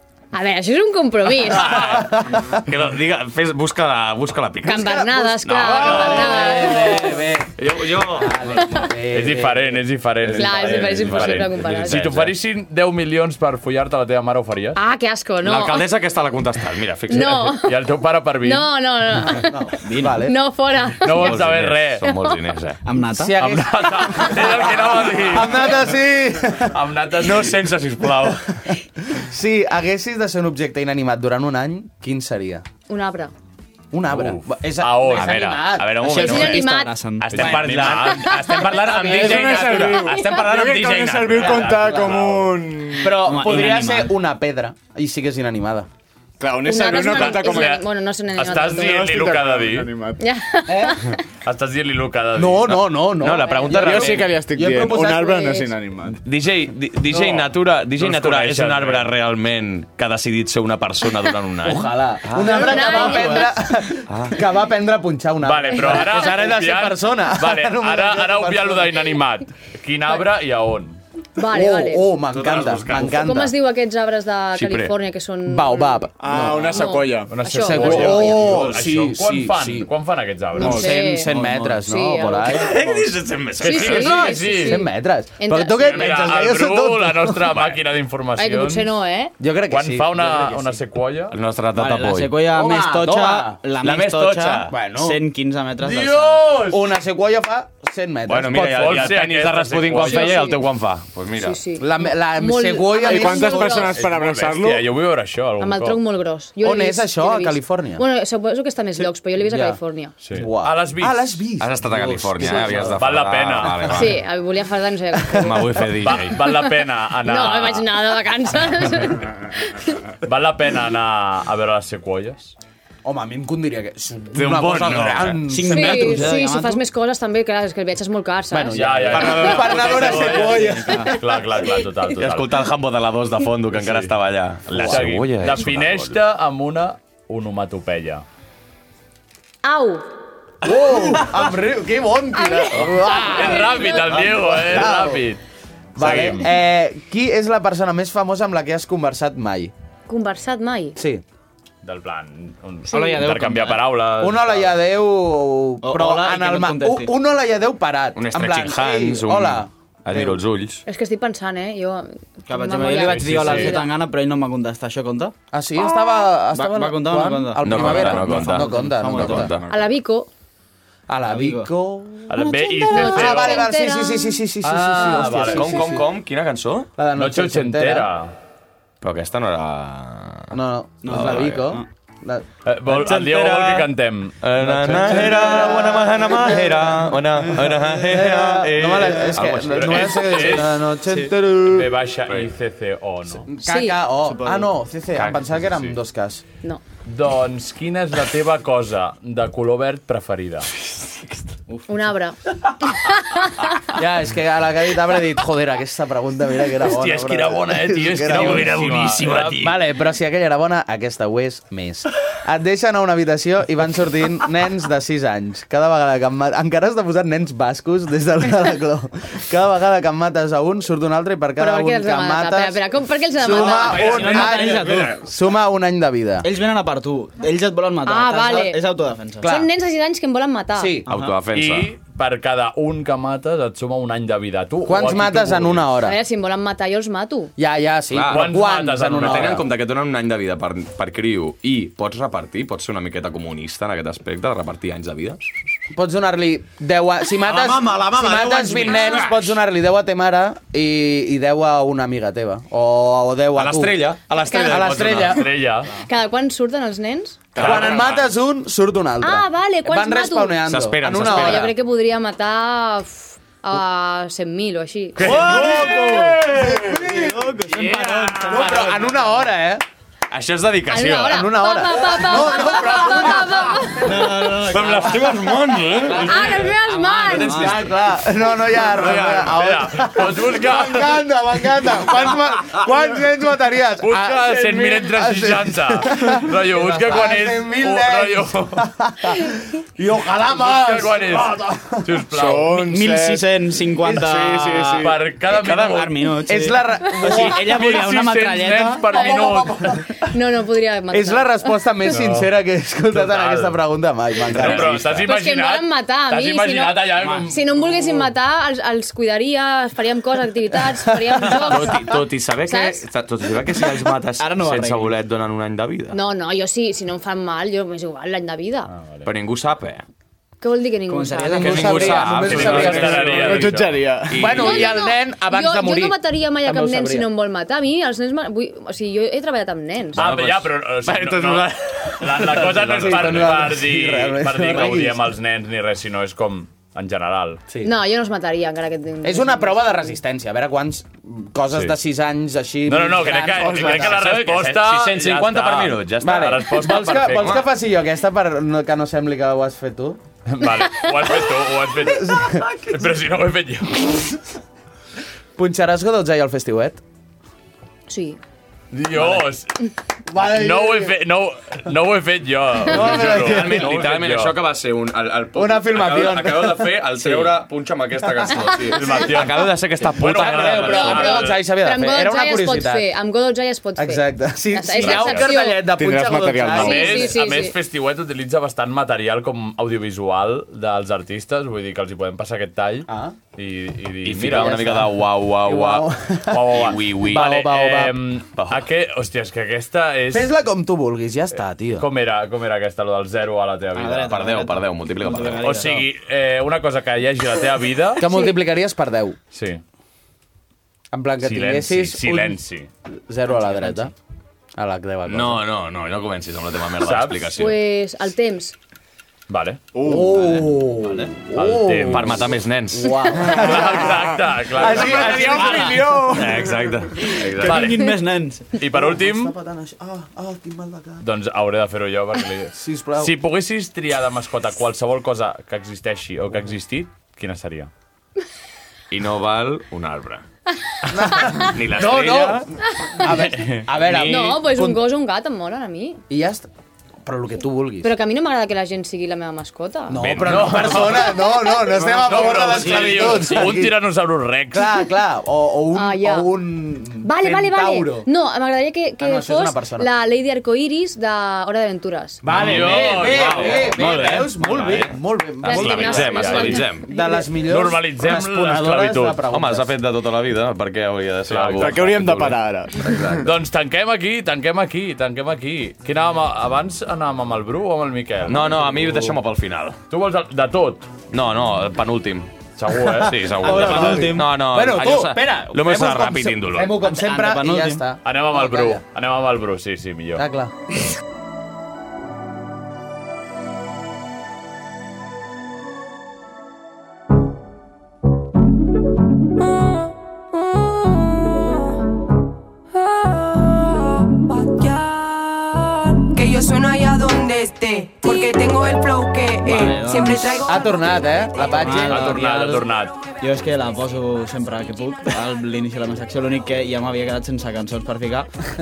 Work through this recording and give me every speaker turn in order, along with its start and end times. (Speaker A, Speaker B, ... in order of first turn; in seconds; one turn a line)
Speaker A: 0.3-1.8
Speaker B: 1.5-8.8
Speaker C: 1.7-2.6
Speaker A: 4.6-7.1
Speaker C: 4.7-9.8
Speaker D: 9.1-14.8
Speaker B: 10.2-12.3
Speaker A: 10.4-12.0
Speaker A: 14.8-15.8
Speaker B: 15.4-17.6
Speaker A: 17.1-17.7
Speaker D: 17.5-18.7
Speaker A: 18.4-19.5
Speaker C: 19.4-20.3
Speaker E: 19.8-20.2
Speaker A: 20.2-21.4
Speaker D: 21.0-22.0
Speaker B: 21.2-22.8
Speaker E: 22.9-23.3
Speaker C: 23.1-26.8
Speaker D: 23.4-25.8
Speaker D: 26.7-27.6
Speaker B: 27.2-28.6
Speaker C: 29.1-32.6
Speaker A: 32.9-33.3
Speaker C: 33.9-36.0
Speaker D: 34.1-35.7
Speaker B: 35.1-42.2
Speaker E: 36.0-37.6
Speaker A: 36.2-36.9
Speaker D: 37.3-38.9
Speaker C: 37.4-40.0
Speaker A: 38.2-38.7
Speaker F: 39.0-43.3
Speaker A: 40.1-40.4
Speaker D: 41.3-42.5
Speaker C: 43.0-45.9
Speaker E: 43.2-44.1
Speaker F: 46.4-47.8
Speaker A: 46.6-49.0
Speaker D: 46.9-49.9
Speaker F: 48.7-50.2
Speaker A: 50.2-51.2
Speaker C: 50.7-51.1
Speaker D: 51.4-52.8
Speaker C: 52.3-55.7
Speaker B: 52.6-54.4
Speaker A: 53.3-53.9
Speaker F: 53.7-56.2
Speaker B: 56.2-63.5
Speaker C: 57.1-57.5
Speaker D: 58.0-59.1
Speaker C: 61.6-69.0
Speaker A: 62.4-63.5
Speaker B: 64.1-64.4
Speaker D: 65.4-71.0
Speaker A: 71.4-72.1
Speaker C: 71.4-73.5
Speaker B: 72.3-73.4
Speaker A: 72.9-78.4
Speaker B: 74.5-74.9
Speaker C: 75.5-76.8
Speaker F: 76.2-78.8
Speaker D: 77.3-81.0
Speaker C: 77.5-79.9
Speaker A: 80.5-81.3
Speaker C: 80.5-82.8
Speaker F: 80.6-81.1
Speaker A: 81.8-82.7
Speaker B: 82.4-84.3
Speaker D: 83.6-84.8
Speaker A: 83.6-84.9
Speaker C: 84.5-87.5
Speaker A: 85.4-86.2
Speaker D: 85.8-88.9
Speaker B: 87.5-87.8
Speaker A: 88.4-89.3
Speaker C: 89.4-90.8
Speaker D: 89.7-91.4
Speaker B: 91.3-92.4
Speaker E: 91.7-96.5
Speaker C: 92.5-93.6
Speaker B: 93.8-94.7
Speaker C: 94.7-95.2
Speaker D: 95.8-96.8
Speaker C: 96.6-99.1
Speaker B: 98.3-101.6
Speaker D: 98.5-100.4
Speaker A: 100.0-100.6
Speaker A: 101.4-104.0
Speaker C: 101.8-104.0
Speaker F: 103.0-104.9
Speaker D: 103.9-106.0
Speaker A: 105.6-110.1
Speaker C: 106.6-108.0
Speaker C: 109.4-109.8
Speaker D: 110.2-111.4
Speaker C: 110.3-113.0
Speaker B: 111.6-114.2
Speaker D: 112.5-114.0
Speaker A: 113.9-115.7
Speaker B: 115.4-116.4
Speaker D: 116.0-117.9
Speaker A: 116.4-116.7
Speaker A: 117.2-120.0
Speaker D: 120.2-122.5
Speaker C: 123.0-126.3
Speaker B: 124.3-125.5
Speaker E: 125.5-126.8
Speaker A: 125.7-129.4
Speaker C: 128.5-131.1
Speaker D: 128.7-132.6
Speaker B: 129.1-130.7
Speaker E: 130.7-131.1
Speaker B: 132.1-136.2
Speaker D: 133.7-134.1
Speaker C: 134.7-135.1
Speaker D: 134.8-138.2
Speaker A: 139.6-140.1
Speaker C: 140.6-145.2
Speaker A: 142.3-144.2
Speaker D: 142.8-145.4
Speaker D: 145.9-146.5
Speaker C: 145.9-149.7
Speaker A: 150.1-151.0
Speaker C: 150.9-151.2
Speaker D: 151.8-154.7
Speaker E: 152.9-153.8
Speaker A: 152.9-153.2
Speaker C: 154.2-160.4
Speaker E: 155.8-157.1
Speaker B: 158.1-160.8
Speaker A: 160.9-163.9
Speaker E: 162.5-165.3
Speaker D: 163.0-163.8
Speaker C: 165.5-169.5
Speaker E: 166.5-169.6
Speaker B: 167.6-169.8
Speaker A: 169.7-170.3
Speaker C: 171.1-172.4
Speaker E: 171.3-171.7
Speaker D: 172.3-173.7
Speaker A: 172.9-174.4
Speaker C: 172.9-176.0
Speaker D: 174.6-175.9
Speaker B: 175.5-176.9
Speaker C: 177.0-178.1
Speaker D: 177.2-178.3
Speaker B: 179.0-180.5
Speaker C: 180.5-182.4
Speaker E: 181.0-181.8
Speaker B: 181.1-181.7
Speaker D: 182.6-185.3
Speaker B: 182.9-183.9
Speaker B: 184.4-190.7
Speaker C: 184.8-187.1
Speaker C: 188.0-191.9
Speaker D: 189.7-190.8
Speaker D: 191.7-193.5
Speaker C: 193.5-196.4
Speaker A: 193.6-194.0
Speaker E: 194.3-194.7
Speaker B: 195.1-195.9
Speaker D: 197.1-200.7
Speaker A: 201.9-202.4
Speaker A: 202.9-203.6
Speaker C: 203.9-208.9
Speaker D: 206.8-209.6
Speaker B: 208.2-209.7
Speaker C: 209.6-222.8
Speaker A: 221.6-224.1
Speaker C: 223.3-226.4
Speaker E: 223.9-225.1
Speaker B: 224.0-224.4
Speaker D: 224.0-224.6
Speaker E: 226.4-229.5
Speaker A: 228.0-228.8
Speaker C: 229.4-229.7
Speaker A: 229.4-230.9
Speaker C: 230.8-231.1
Speaker E: 231.1-231.3
Speaker B: 231.1-231.9
Speaker D: 231.5-235.8
Speaker C: 234.9-236.2
Speaker A: 236.0-237.5
Speaker C: 237.6-239.7
Speaker B: 238.1-238.4
Speaker D: 238.3-239.6
Speaker B: 239.1-245.5
Speaker C: 245.9-255.5
Speaker B: 247.4-249.5
Speaker A: 248.9-249.2
Speaker B: 253.5-255.4
Speaker A: 254.4-255.1
Speaker D: 255.2-255.9
Speaker A: 256.0-257.4
Speaker B: 257.5-258.2
Speaker D: 257.6-258.1
Speaker C: 257.6-261.7
Speaker A: 259.2-265.3
Speaker B: 260.6-261.7
Speaker D: 265.2-266.0
Speaker B: 265.2-267.0
Speaker E: 265.3-266.4
Speaker C: 265.3-267.5
Speaker E: 266.9-268.7
Speaker B: 268.2-268.6
Speaker C: 268.3-269.8
Speaker B: 270.3-271.5
Speaker A: 270.9-274.3
Speaker C: 271.3-273.9
Speaker E: 274.0-275.2
Speaker B: 274.1-276.6
Speaker A: 276.2-277.7
Speaker E: 276.2-277.9
Speaker B: 277.3-277.7
Speaker C: 277.5-292.0
Speaker B: 278.8-279.7
Speaker D: 279.3-281.2
Speaker D: 284.0-288.9
Speaker D: 290.5-292.9
Speaker F: 292.3-295.2
Speaker E: 292.8-295.1
Speaker D: 295.0-296.2
Speaker B: 295.5-296.0
Speaker E: 295.6-299.1
Speaker C: 296.4-297.8
Speaker D: 297.2-300.0
Speaker A: 299.1-301.7
Speaker C: 299.2-299.9
Speaker C: 301.1-305.1
Speaker D: 302.1-302.5
Speaker D: 303.1-303.8
Speaker B: 304.5-305.3
Speaker D: 304.5-307.6
Speaker A: 305.2-312.1
Speaker E: 307.2-307.5
Speaker B: 311.4-316.2
Speaker A: 312.7-313.0
Speaker E: 314.4-315.1
Speaker A: 316.1-318.9
Speaker D: 318.9-319.3
Speaker B: 319.2-320.0
Speaker A: 320.6-322.3
Speaker E: 321.1-322.3
Speaker C: 321.5-323.6
Speaker B: 321.6-324.9
Speaker D: 322.3-323.9
Speaker F: 323.3-324.5
Speaker C: 324.3-327.3
Speaker A: 324.5-330.2
Speaker B: 330.1-333.6
Speaker D: 330.1-337.6
Speaker C: 332.6-335.3
Speaker A: 337.8-340.1
Speaker C: 339.2-344.2
Speaker D: 342.9-347.6
Speaker B: 343.6-347.7
Speaker C: 346.2-350.2
Speaker D: 350.5-354.4
Speaker C: 352.0-352.7
Speaker C: 355.6-357.0
Speaker A: 358.1-358.4
Speaker D: 358.9-359.7
Speaker B: 359.1-359.4
Speaker C: 360.3-361.1
Speaker D: 360.4-364.6
Speaker C: 362.9-363.9
Speaker B: 362.9-371.4
Speaker C: 365.5-367.4
Speaker D: 368.9-371.6
Speaker C: 370.4-373.1
Speaker A: 370.8-375.9
Speaker C: 374.0-377.3
Speaker D: 375.0-375.5
Speaker F: 375.9-376.9
Speaker D: 376.7-384.9
Speaker A: 376.7-377.7
Speaker C: 383.1-383.4
Speaker B: 384.2-386.1
Speaker C: 384.5-388.2
Speaker D: 386.5-390.5
Speaker B: 386.7-387.5
Speaker B: 388.6-388.9
Speaker C: 390.3-392.1
Speaker D: 391.9-394.4
Speaker E: 393.9-396.1
Speaker B: 394.2-395.9
Speaker D: 395.6-398.3
Speaker C: 398.2-399.4
Speaker D: 399.5-399.8
Speaker C: 401.1-402.6
Speaker D: 401.4-402.9
Speaker C: 403.3-404.1
Speaker C: 404.8-405.6
Speaker B: 405.2-407.8
Speaker D: 407.0-407.6
Speaker A: 407.6-408.7
Speaker D: 409.5-409.8
Speaker F: 409.9-410.6
Speaker C: 410.0-416.1
Speaker D: 411.5-412.5
Speaker B: 412.1-413.7
Speaker D: 413.5-416.0
Speaker F: 414.8-416.7
Speaker B: 414.8-418.0
Speaker E: 417.5-418.7
Speaker D: 417.6-418.1
Speaker D: 418.8-419.5
Speaker C: 418.8-421.2
Speaker D: 421.2-427.9
Speaker C: 422.7-423.3
Speaker B: 429.1-430.4
Speaker C: 431.1-435.0
Speaker B: 431.4-432.6
Speaker A: 433.0-433.3
Speaker D: 433.3-433.9
Speaker B: 434.0-434.5
Speaker A: 434.2-436.2
Speaker C: 436.3-436.7
Speaker C: 437.2-438.1
Speaker A: 438.0-440.2
Speaker C: 440.1-443.9
Speaker B: 440.2-441.2
Speaker D: 440.4-441.4
Speaker D: 442.0-445.0
Speaker B: 442.8-443.3
Speaker C: 444.7-448.3
Speaker A: 445.9-446.5
Speaker A: 447.2-452.4
Speaker C: 449.2-450.1
Speaker C: 452.4-456.5
Speaker D: 452.4-454.1
Speaker B: 452.5-457.1
Speaker E: 454.0-454.5
Speaker A: 455.6-457.4
Speaker D: 456.1-456.9
Speaker C: 457.1-460.0
Speaker D: 457.7-459.4
Speaker B: 459.5-463.5
Speaker D: 461.5-462.1
Speaker F: 461.8-463.3
Speaker D: 463.4-469.3
Speaker B: 468.5-470.0
Speaker D: 470.1-471.1
Speaker B: 471.3-472.5
Speaker D: 472.8-474.1
Speaker B: 473.1-477.0
Speaker C: 473.1-479.0
Speaker E: 473.6-474.5
Speaker E: 477.0-478.0
Speaker D: 478.2-480.4
Speaker C: 480.4-480.8
Speaker G: 494.3-500.9
Speaker E: 499.6-500.6
Speaker C: 500.6-502.4
Speaker E: 501.6-502.9
Speaker D: 502.0-503.2
Speaker E: 503.4-508.5